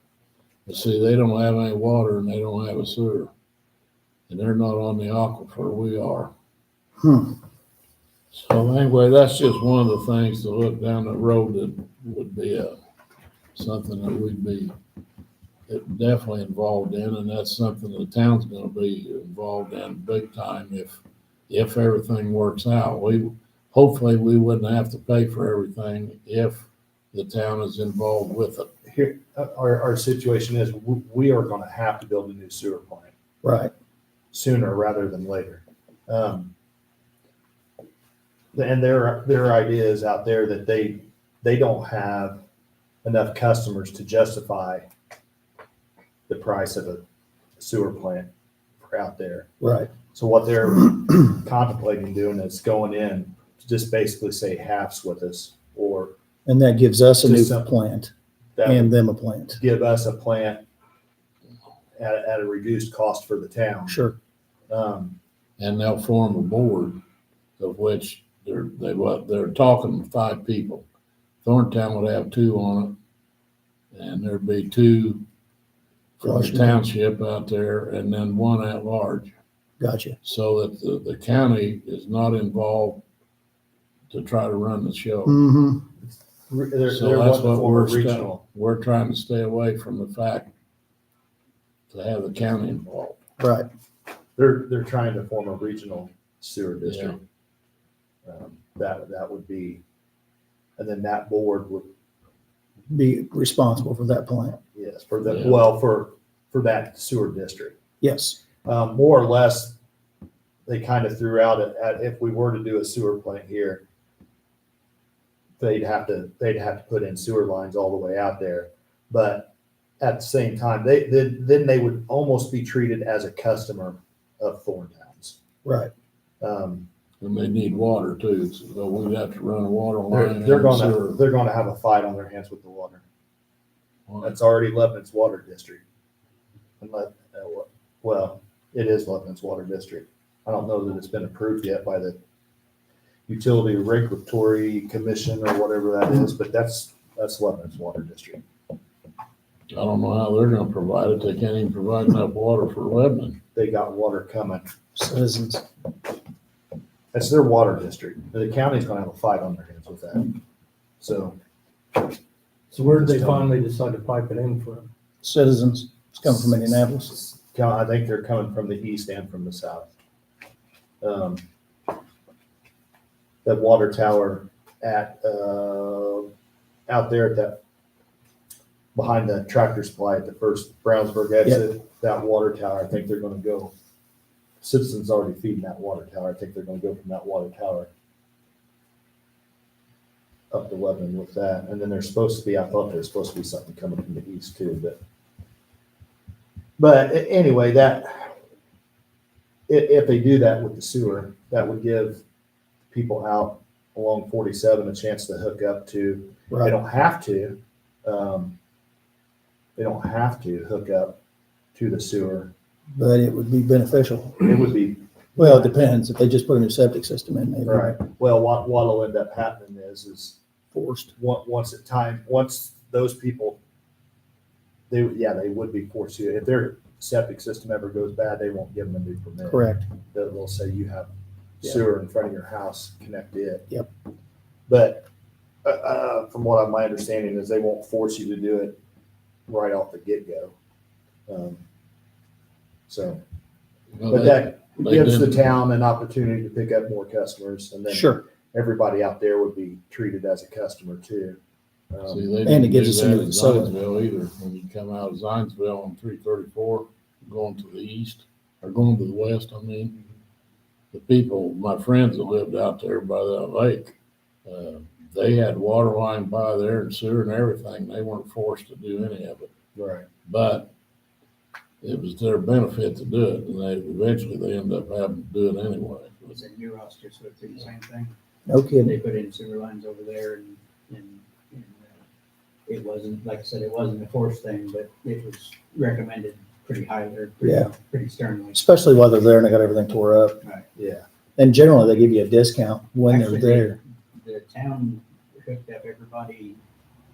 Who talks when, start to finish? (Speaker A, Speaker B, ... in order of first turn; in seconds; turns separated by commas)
Speaker A: 0.7-3.3, Speaker A: 4.3-6.3, Speaker B: 7.0-7.3, Speaker A: 8.3-12.7, Speaker A: 13.5-14.7, Speaker A: 15.7-28.7, Speaker C: 28.9-33.1, Speaker B: 33.4-33.7, Speaker C: 34.3-36.5, Speaker C: 38.5-42.4, Speaker C: 43.0-44.9, Speaker C: 46.3-47.0, Speaker C: 47.6-48.3, Speaker C: 48.8-49.5, Speaker B: 49.6-49.9, Speaker C: 50.1-56.1, Speaker B: 56.5-58.1, Speaker C: 57.2-57.7, Speaker C: 58.5-58.9, Speaker B: 58.6-59.6, Speaker C: 59.5-60.6, Speaker C: 62.0-64.0, Speaker B: 63.9-64.2, Speaker C: 64.7-65.2, Speaker A: 65.6-67.0, Speaker A: 67.6-70.9, Speaker A: 71.4-73.0, Speaker A: 73.9-75.2, Speaker A: 76.2-79.3, Speaker B: 76.2-76.8, Speaker B: 79.8-80.2, Speaker A: 80.2-83.0, Speaker A: 84.1-85.4, Speaker B: 85.2-85.8, Speaker C: 86.5-88.4, Speaker A: 86.9-90.5, Speaker A: 91.9-93.2, Speaker B: 93.4-93.7, Speaker C: 94.3-97.2, Speaker A: 96.8-97.2, Speaker C: 98.2-99.8, Speaker C: 100.8-101.9, Speaker B: 102.9-104.6, Speaker C: 104.7-107.8, Speaker A: 105.3-105.6, Speaker B: 108.0-108.4, Speaker C: 108.6-109.8, Speaker C: 110.7-113.8, Speaker C: 115.6-125.4, Speaker B: 125.6-125.9, Speaker C: 126.4-126.8, Speaker A: 127.2-131.2, Speaker C: 130.1-133.0, Speaker C: 134.2-135.8, Speaker C: 136.8-142.2, Speaker C: 143.3-148.4, Speaker A: 149.7-153.4, Speaker C: 153.5-154.7, Speaker B: 154.9-155.6, Speaker C: 157.1-160.4, Speaker C: 161.0-161.4, Speaker D: 162.7-164.9, Speaker C: 162.9-163.5, Speaker B: 165.2-167.1, Speaker C: 166.3-169.9, Speaker C: 171.0-171.4, Speaker C: 173.4-176.3, Speaker C: 176.9-177.6, Speaker C: 178.9-183.7, Speaker C: 184.6-187.9, Speaker C: 190.5-195.0, Speaker C: 196.8-198.3, Speaker C: 199.7-202.2, Speaker C: 202.9-208.5, Speaker B: 206.5-206.8, Speaker C: 209.8-211.2, Speaker C: 211.7-212.5, Speaker B: 212.9-214.5, Speaker C: 214.4-215.7, Speaker B: 215.4-217.9, Speaker C: 217.6-220.4, Speaker B: 220.7-221.1, Speaker C: 221.2-223.6, Speaker C: 224.9-233.7, Speaker B: 229.4-229.9, Speaker C: 234.7-235.1, Speaker C: 235.6-238.8, Speaker C: 239.5-240.5, Speaker C: 241.3-241.6, Speaker C: 242.9-243.2, Speaker A: 243.9-245.6, Speaker C: 244.1-251.4, Speaker B: 247.9-248.2, Speaker C: 251.9-252.3, Speaker A: 252.1-259.9, Speaker B: 252.4-253.7, Speaker A: 260.9-269.5, Speaker C: 269.7-270.1, Speaker A: 270.2-270.7, Speaker A: 271.8-276.3, Speaker E: 276.3-278.1, Speaker B: 278.5-278.9, Speaker E: 278.8-282.0, Speaker E: 282.7-288.6, Speaker B: 287.4-287.7, Speaker B: 288.5-290.4, Speaker C: 290.8-291.1, Speaker B: 291.4-293.8, Speaker E: 293.1-296.6